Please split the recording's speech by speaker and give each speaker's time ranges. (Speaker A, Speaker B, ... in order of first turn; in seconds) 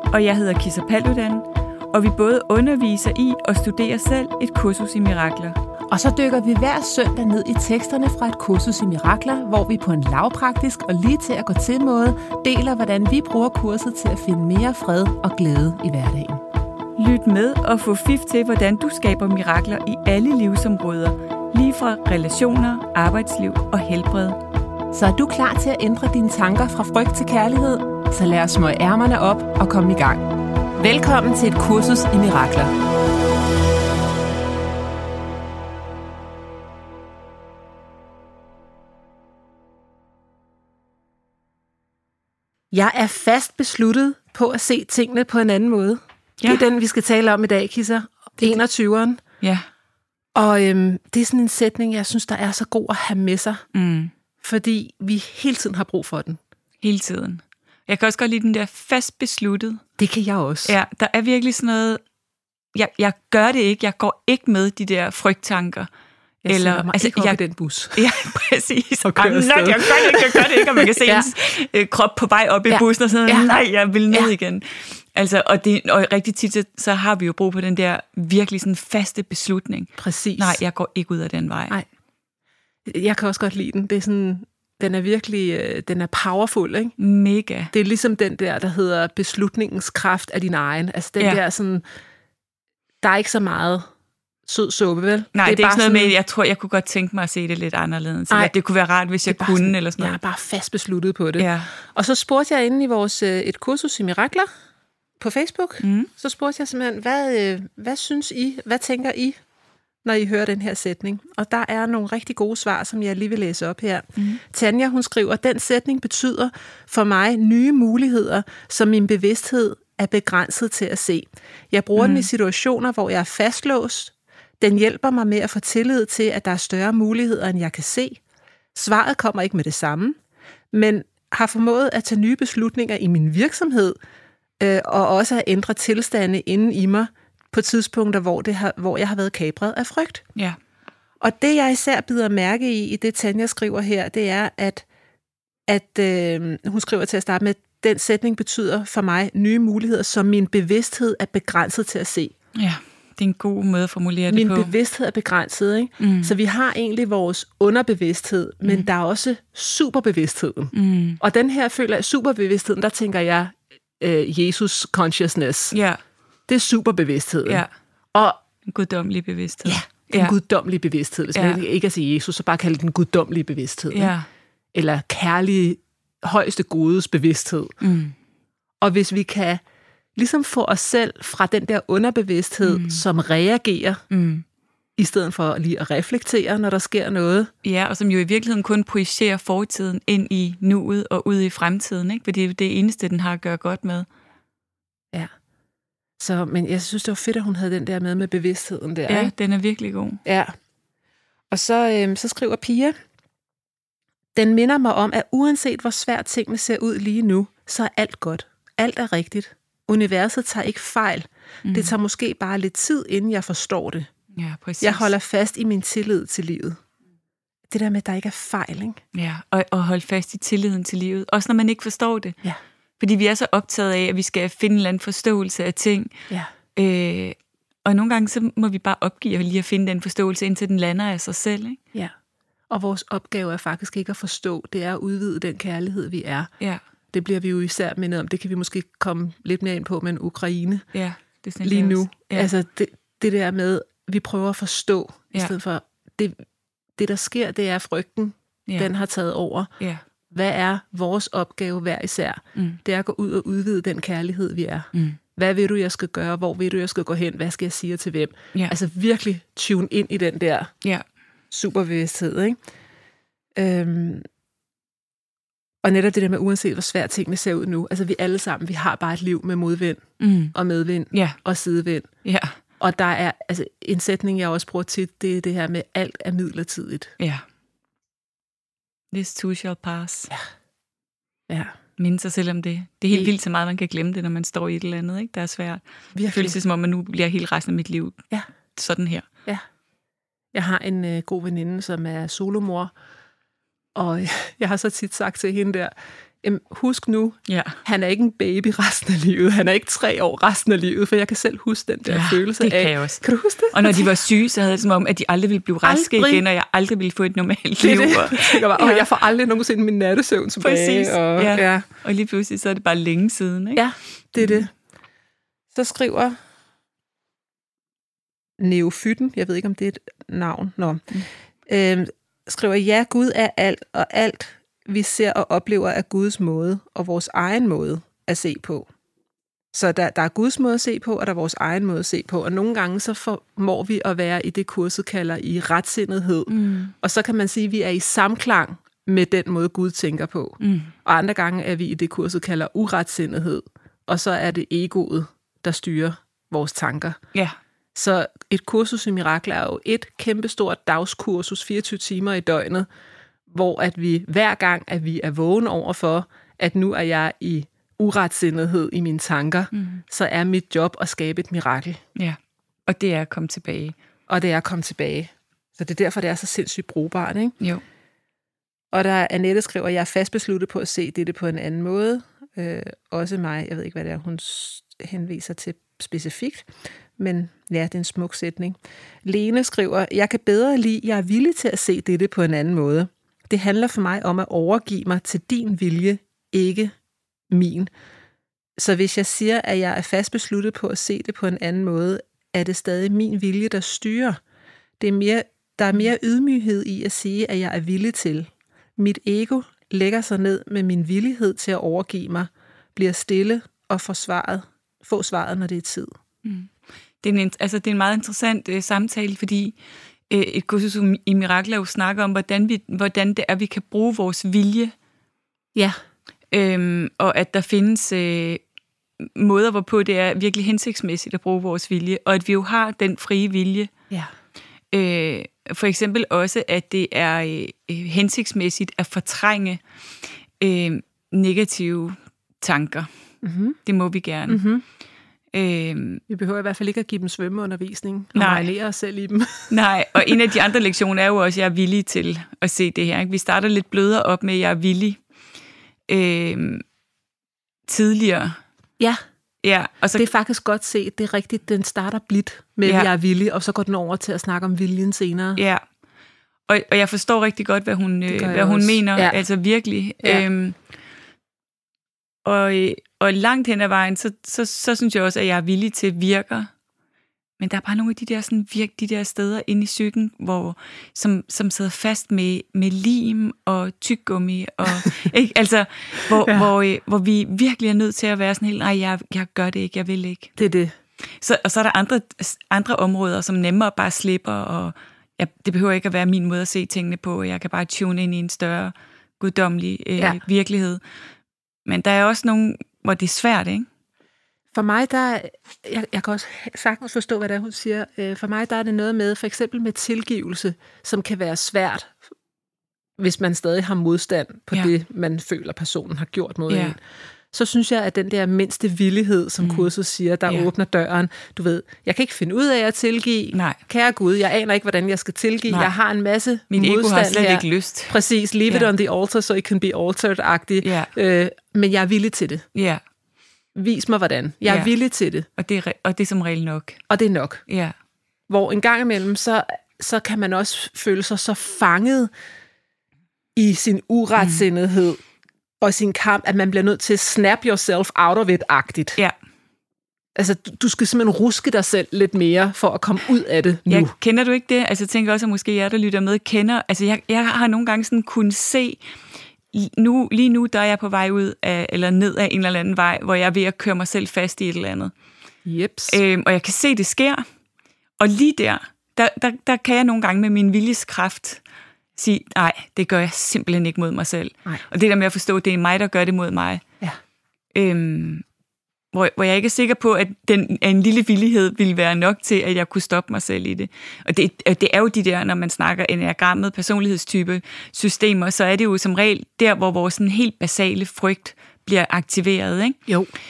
Speaker A: 0.1-5.6, 17.0-24.4, 46.4-46.7, 49.4-49.7, 53.7-54.1, 56.8-59.8, 60.6-62.0, 62.7-65.9, 66.5-67.4, 68.0-81.8, 87.0-87.7, 95.3-100.2, 101.4-101.7, 105.8-106.1, 122.0-122.3, 152.6-154.7, 156.0-156.3, 160.7-161.2, 165.7-166.0, 167.5-167.7, 168.7-170.3, 171.3-171.6, 173.9-174.3, 177.8-178.2, 182.6-183.1, 184.1-184.4, 187.6-194.1, 199.1-200.2, 211.7-211.9, 214.3-215.1, 219.1-222.4, 223.0-226.1, 226.8-231.8, 240.9-242.5, 270.2-270.5, 271.1-271.4, 272.2-272.6, 277.2-277.4, 279.1-280.3, 282.0-289.3, 297.5-297.8, 302.1-309.1, 310.6-313.8, 314.4-314.7, 336.5-336.9, 340.6-340.9, 359.7-360.0, 362.2-364.0, 406.4-406.7, 407.2-409.8, 410.3-414.9, 416.5-418.6, 419.2-423.9, 424.9-429.8, 430.6-433.1, 433.9-434.6, 435.5-436.2, 438.4-438.7, 439.7-445.2, 446.1-446.8, 447.9-448.6, 449.6-450.3, 455.6-455.8, 456.7-460.8, 462.4-466.7, 467.6-480.5, 481.4-491.0, 491.9-493.9, 506.7-506.9, 509.6-509.9, 513.5-513.8, 516.7-518.1, 520.8-521.1, 522.8-523.0, 524.7-524.9, 525.6-527.0, 527.7-528.0, 534.4-534.6, 543.9-549.0, 549.7-555.1, 556.1-557.5, 558.2-561.6, 562.2-566.8, 567.7-568.5, 569.1-583.0
Speaker B: 5.9-16.4, 24.9-32.7, 42.7-49.2, 50.4-53.6, 54.4-56.4, 60.0-60.7, 66.4-68.0, 69.0-71.3, 72.7-73.5, 80.0-80.6, 82.9-87.0, 87.7-91.8, 93.0-93.9, 94.5-96.1, 99.3-104.5, 105.2-109.4, 110.0-128.2, 128.7-130.2, 130.7-134.0, 134.6-140.3, 141.2-144.8, 145.7-152.3, 154.3-165.8, 166.5-168.4, 169.7-174.1, 174.7-177.7, 178.8-179.6, 180.2-184.0, 185.0-187.5, 196.2-199.3, 200.2-200.5, 201.5-202.9, 204.4-214.1, 214.8-216.8, 217.7-219.0, 232.7-236.5, 237.1-240.9, 241.6-246.4, 247.0-249.7, 250.3-260.7, 261.5-262.6, 263.6-264.2, 265.8-270.0, 270.5-272.1, 272.8-277.1, 281.5-281.7, 286.2-286.6, 290.5-292.9, 293.9-295.9, 296.4-304.1, 305.8-306.4, 307.8-311.9, 313.8-314.7, 315.7-316.4, 318.6-321.1, 321.7-328.9, 329.7-347.2, 347.9-352.9, 353.5-362.0, 364.3-367.6, 368.9-386.9, 387.5-387.9, 388.8-394.4, 395.0-406.1, 433.4-433.8, 434.5-434.8, 436.3-440.4, 450.2-455.6, 458.3-459.4, 476.4-476.7, 480.6-480.9, 494.7-502.2, 503.2-507.0, 507.5-522.6, 523.8-525.5, 527.1-527.6, 528.5-532.3, 533.6-535.2, 535.8-539.2, 540.4-544.1, 555.6-556.2